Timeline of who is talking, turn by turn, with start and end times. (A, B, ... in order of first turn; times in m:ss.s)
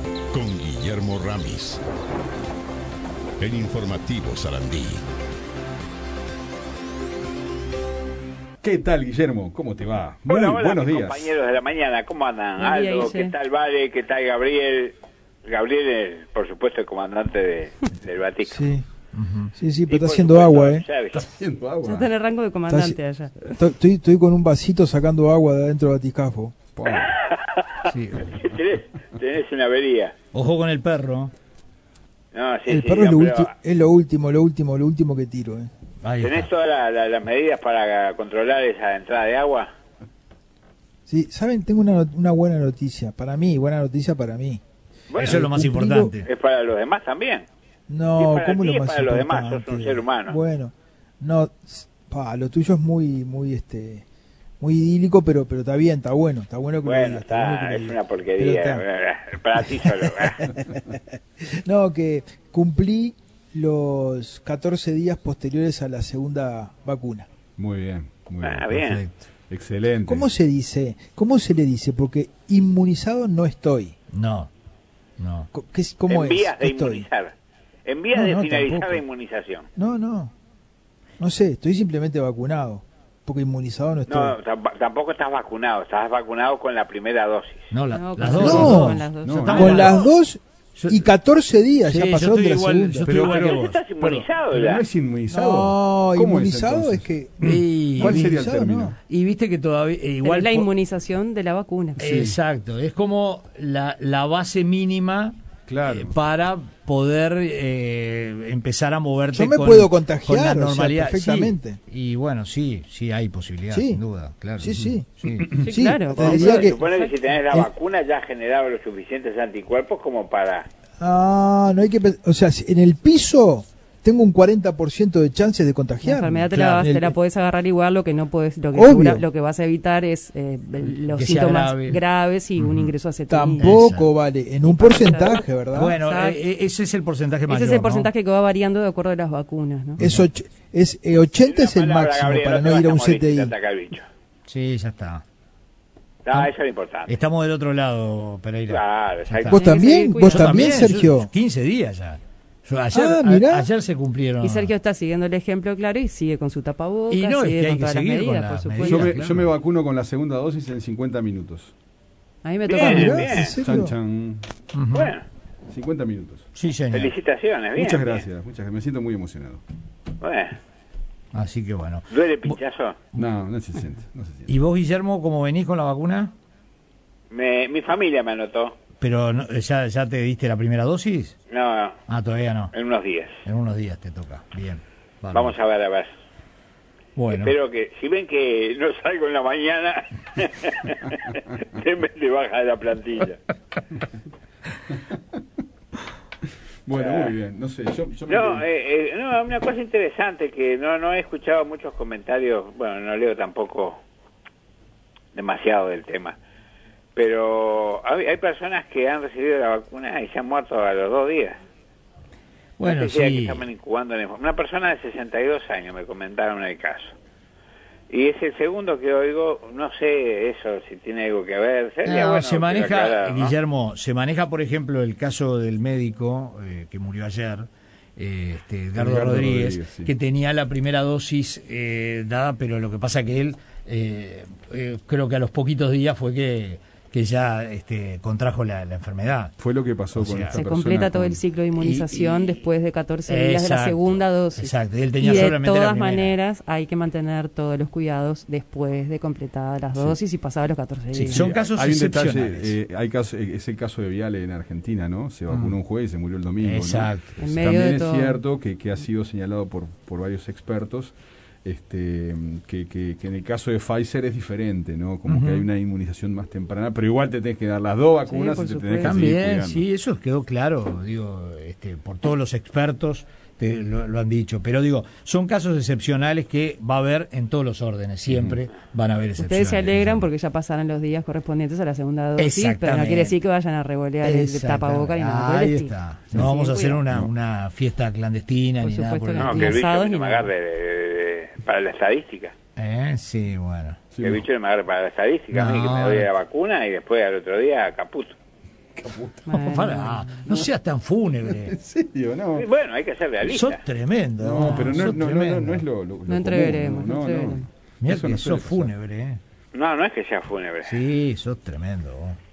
0:00.3-0:01.8 A
0:03.4-0:05.1 A
0:08.6-0:11.4 B
0:10.3-0:18.7 C
0:12.6-0:13.3 D
0:18.4-0:18.8 E
0:19.1-0:19.5 F
0:19.5-0:20.8 E
0:19.9-0:21.2 C
0:21.1-0:22.1 B
0:21.8-0:23.5 D
0:22.7-0:26.6 E
0:26.8-0:27.1 B
0:26.9-0:30.2 C
0:27.9-0:28.3 F
0:30.3-0:31.3 F
0:32.3-0:33.5 C
0:32.7-0:35.7 E
0:36.0-0:36.5 F
0:36.2-0:39.7 C
0:41.1-0:44.6 E
0:45.1-0:45.4 C
0:45.2-0:46.3 F
0:45.2-0:46.1 E
0:46.2-0:47.5 C
0:47.9-0:54.0 E
0:48.2-0:50.4 C
0:54.6-0:58.8 E
0:56.8-1:00.5 C
0:59.6-1:00.8 E
1:01.6-1:07.3 E
1:07.6-1:08.8 B
1:08.4-1:09.0 C
1:08.7-1:09.2 F
1:09.5-1:10.3 B
1:10.0-1:14.0 E
1:14.1-1:14.5 F
1:15.2-1:15.5 F
1:15.5-1:17.1 E
1:16.1-1:17.3 C
1:17.8-1:19.7 C
1:18.1-1:19.0 E
1:19.8-1:20.3 E
1:21.2-1:24.4 E
1:24.1-1:27.7 C
1:27.7-1:30.1 F
1:27.9-1:29.7 D
1:28.2-1:33.1 E
1:29.2-1:29.9 B
1:30.8-1:31.0 F
1:31.9-1:34.3 F
1:33.0-1:33.6 B
1:33.1-1:34.8 C
1:34.4-1:39.0 B
1:35.3-1:39.0 E
1:37.4-1:38.2 F
1:39.0-1:40.7 F
1:40.2-1:42.0 D
1:42.0-1:55.5 F
1:42.0-1:42.4 B
1:45.7-1:46.2 B
1:49.3-1:51.8 E
1:53.7-1:54.0 E
1:54.6-1:56.8 E
1:54.9-1:55.6 B
1:55.6-1:57.2 D
1:56.2-2:00.7 C
2:01.0-2:07.2 E
2:06.0-2:13.8 D
2:08.7-2:09.2 E
2:11.1-2:12.0 F
2:12.6-2:12.9 F
2:13.3-2:16.0 E
2:13.6-2:14.1 F
2:14.6-2:15.5 D
2:15.7-2:18.1 F
2:16.0-2:16.4 D
2:17.5-2:20.0 D
2:20.0-2:23.6 E
2:21.4-2:24.1 C
2:24.5-2:25.2 F
2:26.2-2:27.2 C
2:27.1-2:29.6 F
2:28.7-2:29.7 C
2:29.4-2:31.3 E
2:29.5-2:30.9 D
2:30.2-2:34.7 F
2:32.9-2:33.7 E
2:34.4-2:39.2 D
2:37.1-2:39.5 F
2:38.8-2:41.7 B
2:42.4-2:43.3 D
2:42.7-2:43.6 C
2:42.8-2:43.9 E
2:43.4-2:44.5 B
2:44.7-2:45.1 F
2:44.9-2:45.2 C
2:45.7-2:46.5 B
2:46.6-2:47.1 F
2:46.9-2:48.3 C
2:47.8-2:49.6 B
2:50.2-2:50.6 C
2:51.3-2:52.6 F
2:52.1-2:53.0 C
2:53.2-2:54.6 B
2:54.5-2:56.3 F
2:57.3-2:58.8 C
2:59.0-3:01.4 F
3:01.5-3:02.0 C
3:02.1-3:02.7 F
3:02.7-3:03.4 C
3:03.4-3:05.5 F
3:05.3-3:06.1 C
3:07.2-3:07.5 F
3:07.3-3:13.4 C
3:15.0-3:15.4 B
3:16.9-3:18.6 B
3:16.9-3:17.4 C
3:18.3-3:24.0 C
3:25.3-3:26.4 C
3:27.2-3:31.6 C
3:32.8-3:33.7 F
3:32.8-3:37.2 C
3:38.1-3:43.6 C
3:42.0-3:59.5 F
3:48.9-3:50.2 B
3:59.6-4:01.4 B
4:00.2-4:00.6 F
4:00.5-4:11.5 D
4:01.8-4:02.5 F
4:03.3-4:06.3 F
4:11.1-4:12.7 F
4:11.3-4:29.9 B
4:15.5-4:15.8 F
4:16.6-4:17.4 F
4:17.4-4:18.4 D
4:25.3-4:25.7 F
4:28.3-4:29.2 D
4:29.0-4:40.2 F
4:38.3-4:38.6 B
4:39.4-4:47.0 D
4:42.4-4:43.4 F
4:44.2-4:49.8 F
4:47.0-4:47.3 B
4:48.8-4:50.5 D
4:49.4-4:52.5 C
4:52.8-4:54.0 F
4:54.1-4:54.4 B
4:54.2-4:58.4 C
4:55.5-4:56.3 F
4:59.0-4:59.6 B
4:59.5-5:00.5 D
4:59.7-5:01.8 F
5:00.5-5:02.6 B
5:02.6-5:03.8 C
5:03.4-5:05.8 F
5:04.4-5:09.0 B
5:04.6-5:05.0 D
5:06.3-5:07.7 D
5:08.0-5:09.4 F
5:09.7-5:11.0 C
5:10.8-5:12.4 F